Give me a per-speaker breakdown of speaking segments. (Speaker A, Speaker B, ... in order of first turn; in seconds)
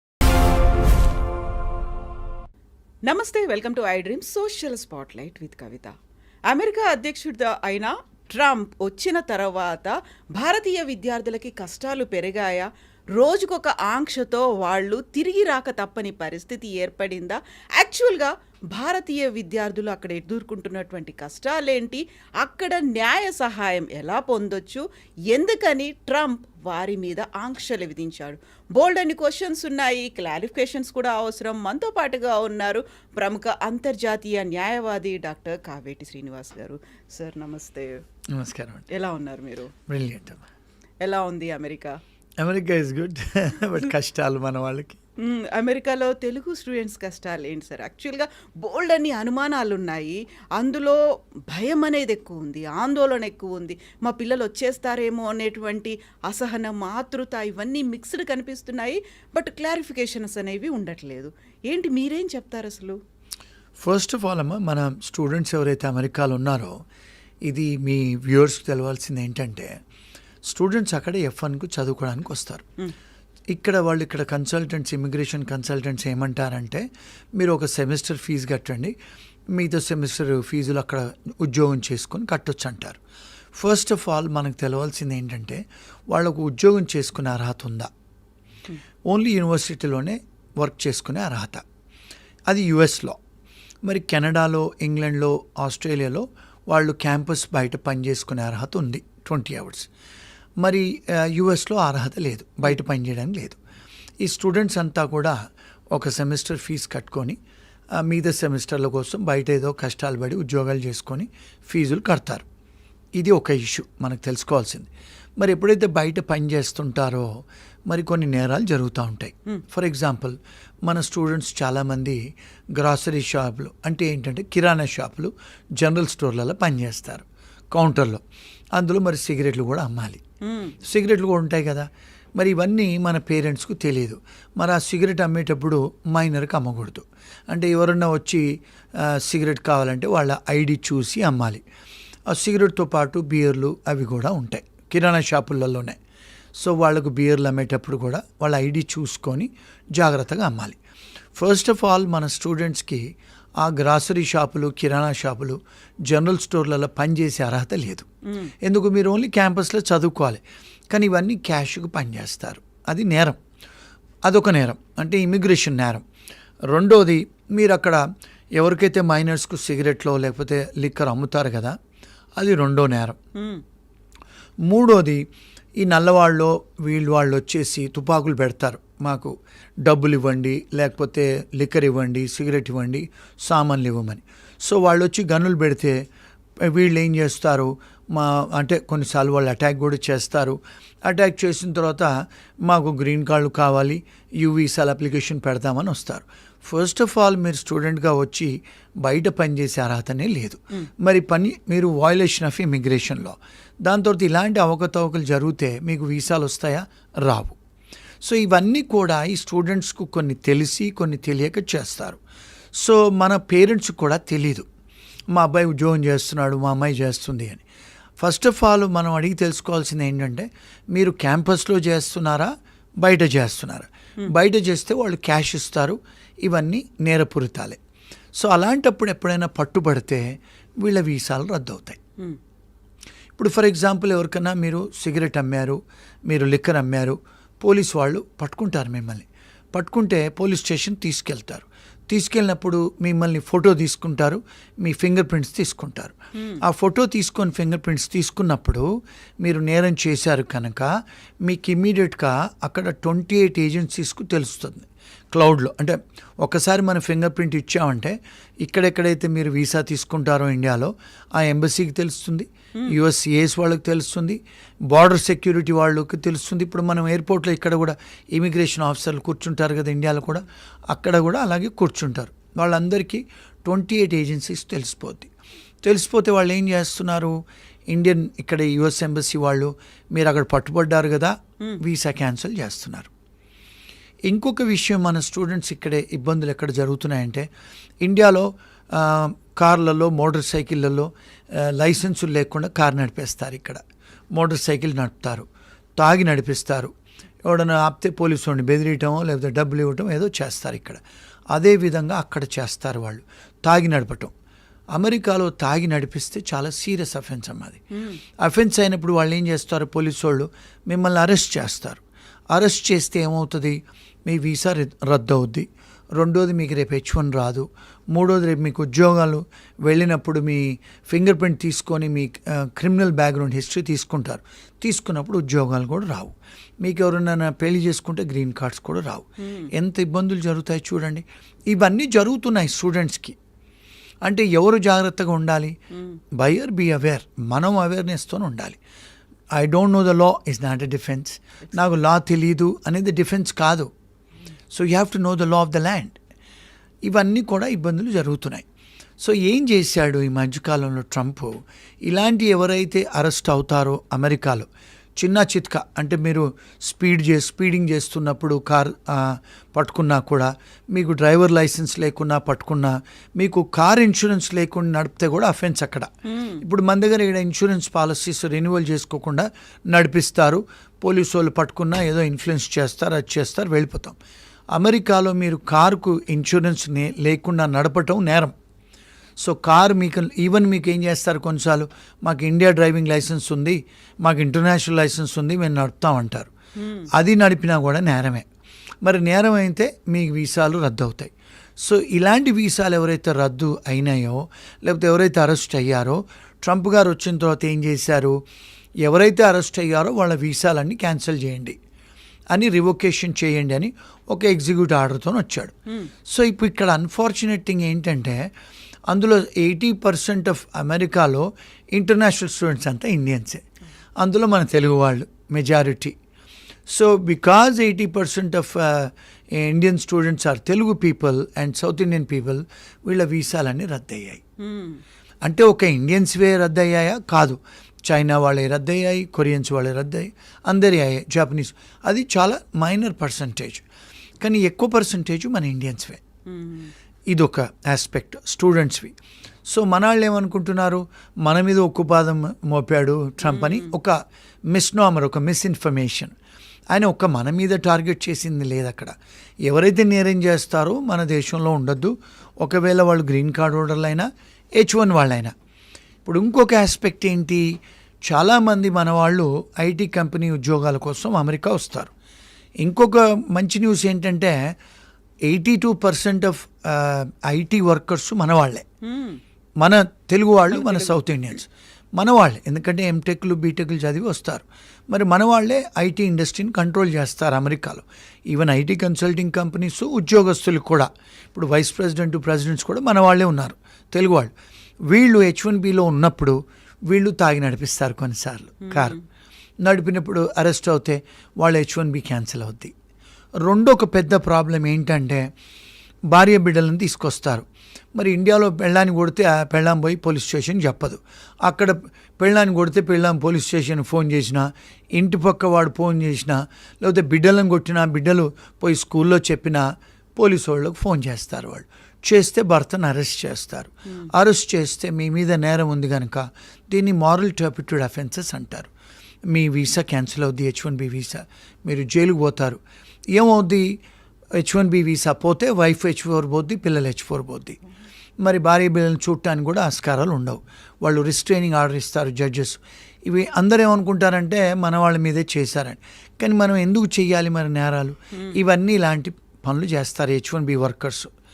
Speaker A: 3.0-5.9, 6.5-38.0, 38.9-39.7, 41.0-42.0, 45.2-63.0, 130.4-130.8, 158.2-158.5, 173.3-173.6, 246.3-246.6, 307.9-308.2, 329.4-329.7, 335.9-336.2, 341.7-341.9, 366.2-366.6, 386.7-387.1, 424.6-425.0, 436.4-436.9, 443.4-443.9, 469.0-469.4, 470.7-471.2, 488.8-489.2
Speaker B: 38.3-38.9, 39.9-40.4, 42.4-45.0, 63.8-66.8, 67.5-69.8, 70.4-72.6, 73.5-78.9, 79.5-83.0, 83.5-87.9, 89.1-91.6, 92.5-93.2, 93.8-99.9, 100.6-103.6, 104.2-105.3, 105.9-107.4, 108.0-112.4, 113.2-122.2, 122.7-128.2, 128.7-130.2, 130.8-141.6, 142.3-146.0, 146.6-150.8, 151.3-158.1, 158.6-163.4, 164.2-166.0, 166.7-168.0, 168.5-171.8, 172.4-173.2, 174.7-175.2, 175.8-186.0, 186.7-192.1, 192.6-207.6, 208.2-212.2, 212.8-214.7, 215.3-217.6, 218.2-227.8, 228.3-232.0, 233.4-248.8, 249.4-250.9, 251.4-264.4, 264.9-275.3, 275.8-277.4, 277.9-283.1, 284.3-287.5, 288.0-293.8, 294.3-295.4, 296.0-296.9, 297.4-301.0, 301.5-304.3, 304.9-307.8, 308.4-312.0, 312.5-333.4, 334.2-335.8, 336.3-338.8, 339.5-343.9, 344.7-346.2, 347.0-348.6, 349.2-366.1, 366.6-374.1, 374.7-378.5, 379.4-386.5, 387.1-388.4, 389.0-398.4, 399.0-401.8, 402.5-405.7, 406.3-408.5, 409.1-413.6, 414.2-416.1, 416.9-424.4, 425.4-433.8, 434.4-436.2, 437.3-439.1, 439.7-444.1, 444.7-446.3, 446.9-449.1, 449.6-455.5, 456.2-457.6, 458.2-462.1, 462.8-464.6, 465.4-468.9, 469.8-484.5, 485.1-489.1, 489.8-492.9, 493.6-495.5, 496.3-509.8, 510.4-518.9, 519.5-522.8, 523.3-524.0, 524.6-527.8, 528.4-541.3